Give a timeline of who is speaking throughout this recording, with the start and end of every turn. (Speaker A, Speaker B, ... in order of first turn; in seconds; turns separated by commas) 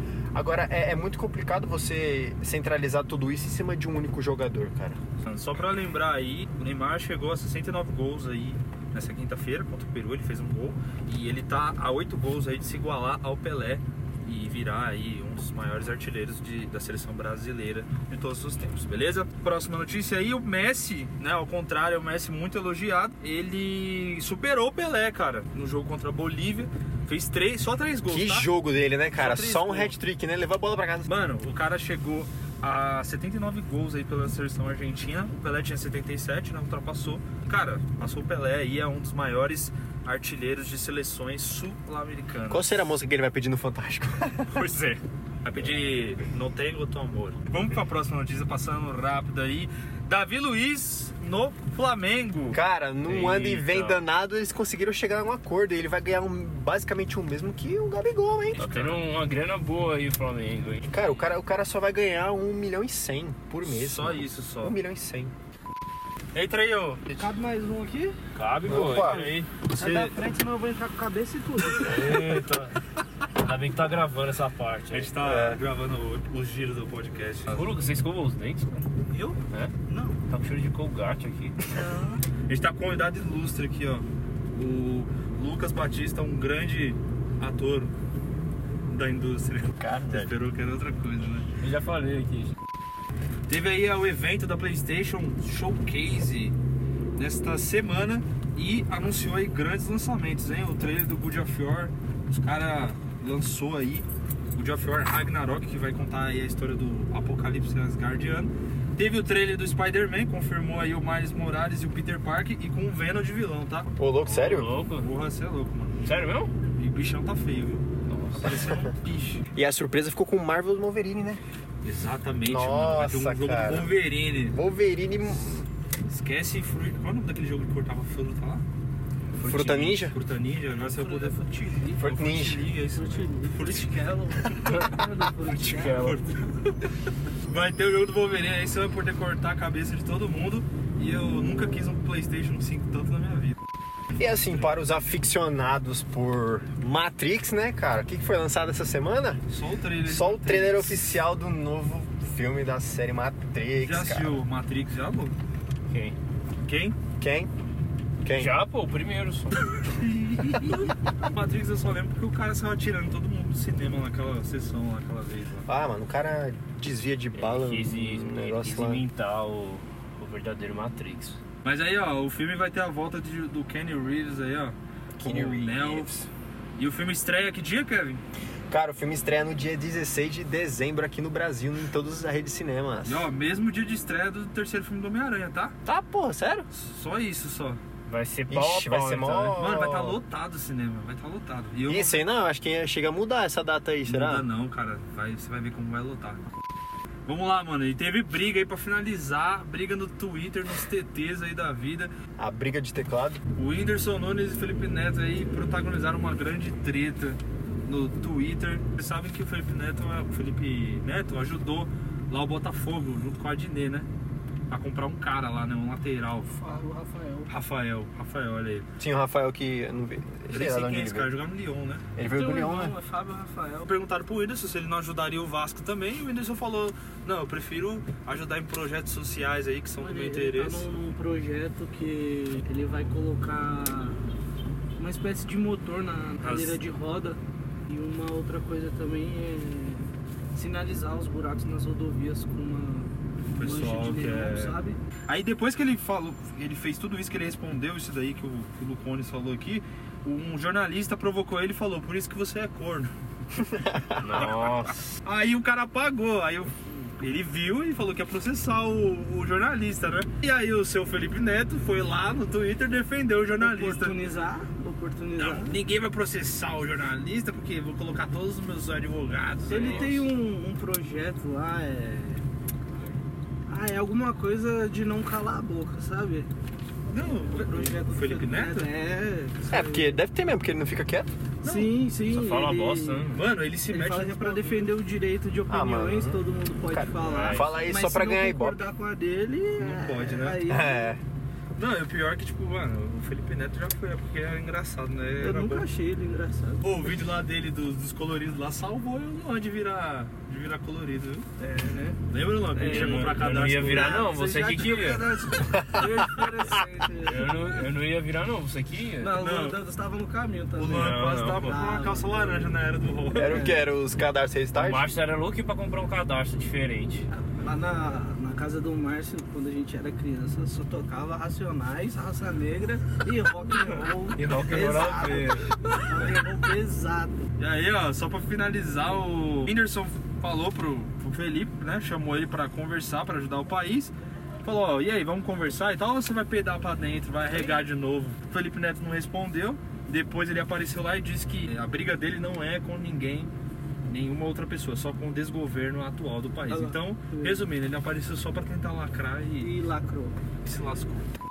Speaker A: 0.3-5.0, Speaker B: 5.2-28.5, Speaker A: 28.1-31.1, Speaker B: 29.1-29.9, Speaker B: 31.1-42.9, Speaker A: 42.5-44.7, Speaker B: 44.5-52.6, Speaker A: 52.5-58.6, Speaker C: 53.0-54.0, Speaker B: 58.6-59.0, Speaker C: 58.6-60.9, Speaker A: 60.9-65.3, Speaker B: 63.6-64.8, Speaker B: 66.3-67.1, Speaker D: 67.1-72.2, Speaker C: 68.3-69.5, Speaker A: 68.7-69.3, Speaker B: 69.7-70.1, Speaker C: 71.8-72.8, Speaker C: 73.4-75.2, Speaker B: 74.9-77.7, Speaker A: 75.2-75.6, Speaker C: 77.5-78.8, Speaker D: 79.0-80.2, Speaker C: 80.3-81.7, Speaker D: 81.7-82.2, Speaker B: 82.5-87.9, Speaker B: 88.9-91.5, Speaker A: 89.8-90.3, Speaker C: 91.6-92.6, Speaker B: 93.5-96.5, Speaker B: 97.2-113.9, Speaker A: 114.0-114.8, Speaker C: 114.2-115.1, Speaker B: 114.9-116.2, Speaker C: 116.0-116.5, Speaker B: 116.7-117.9, Speaker C: 118.1-118.6, Speaker B: 118.4-119.4, Speaker A: 119.5-121.4, Speaker B: 121.8-124.6, Speaker A: 122.5-125.7, Speaker B: 126.1-128.6, Speaker C: 129.4-130.1, Speaker A: 129.4-130.2, Speaker B: 130.0-131.4, Speaker D: 130.7-132.0, Speaker A: 131.9-132.7, Speaker B: 132.0-134.0, Speaker D: 132.9-136.4, Speaker C: 135.4-136.2, Speaker B: 135.8-136.9, Speaker B: 137.4-143.6, Speaker A: 144.2-149.4, Speaker B: 149.5-151.1, Speaker A: 150.0-154.4, Speaker B: 153.8-155.4, Speaker C: 155.9-156.2, Speaker B: 156.6-157.0, Speaker A: 157.2-157.5, Speaker A: 158.2-158.5, Speaker C: 158.3-159.6, Speaker B: 159.7-165.7, Speaker A: 165.7-169.1, Speaker C: 167.3-171.4, Speaker B: 171.6-176.1, Speaker A: 175.2-176.3, Speaker B: 176.8-178.2, Speaker A: 178.7-183.3, Speaker B: 183.1-185.8, Speaker A: 185.8-186.7, Speaker B: 186.7-187.8, Speaker C: 188.1-189.6, Speaker A: 188.5-190.2, Speaker B: 189.6-192.2, Speaker A: 191.9-194.4, Speaker B: 194.1-196.4, Speaker B: 197.3-202.1, Speaker A: 202.4-203.4, Speaker B: 203.6-214.1, Speaker B: 214.7-216.8, Speaker D: 216.6-217.5, Speaker B: 217.5-218.9, Speaker A: 219.0-221.3, Speaker B: 220.5-222.1, Speaker A: 222.2-223.0, Speaker D: 222.3-223.9, Speaker B: 223.9-230.9, Speaker D: 230.0-234.2, Speaker D: 235.0-245.0, Speaker B: 236.4-236.8, Speaker B: 243.5-253.1, Speaker A: 253.7-254.3, Speaker C: 254.2-255.1, Speaker B: 254.3-264.2, Speaker D: 263.6-265.8, Speaker B: 265.4-270.3, Speaker D: 269.7-272.4, Speaker D: 273.7-276.5, Speaker B: 277.1-278.9, Speaker D: 277.1-280.2, Speaker A: 279.7-281.3, Speaker B: 281.6-281.9, Speaker D: 281.6-283.3, Speaker C: 282.3-283.4, Speaker B: 283.3-284.9, Speaker D: 283.9-291.2, Speaker A: 285.7-288.8, Speaker C: 287.2-287.7, Speaker B: 289.8-290.6, Speaker A: 290.7-291.2, Speaker B: 291.8-295.9, Speaker D: 295.4-296.9, Speaker B: 296.8-301.5, Speaker D: 301.6-302.2, Speaker B: 302.3-304.3, Speaker C: 302.8-305.3, Speaker D: 302.8-307.7, Speaker A: 305.6-306.1, Speaker C: 307.2-309.4, Speaker D: 309.2-312.7, Speaker B: 309.4-309.8, Speaker B: 310.8-313.7, Speaker C: 310.9-311.8, Speaker A: 313.3-315.1, Speaker D: 313.4-313.9, Speaker C: 314.7-317.3, Speaker D: 317.3-327.5, Speaker C: 324.3-326.2, Speaker B: 327.6-343.5, Speaker B: 344.1-349.8, Speaker D: 346.7-347.6, Speaker D: 349.6-350.4, Speaker B: 350.6-351.3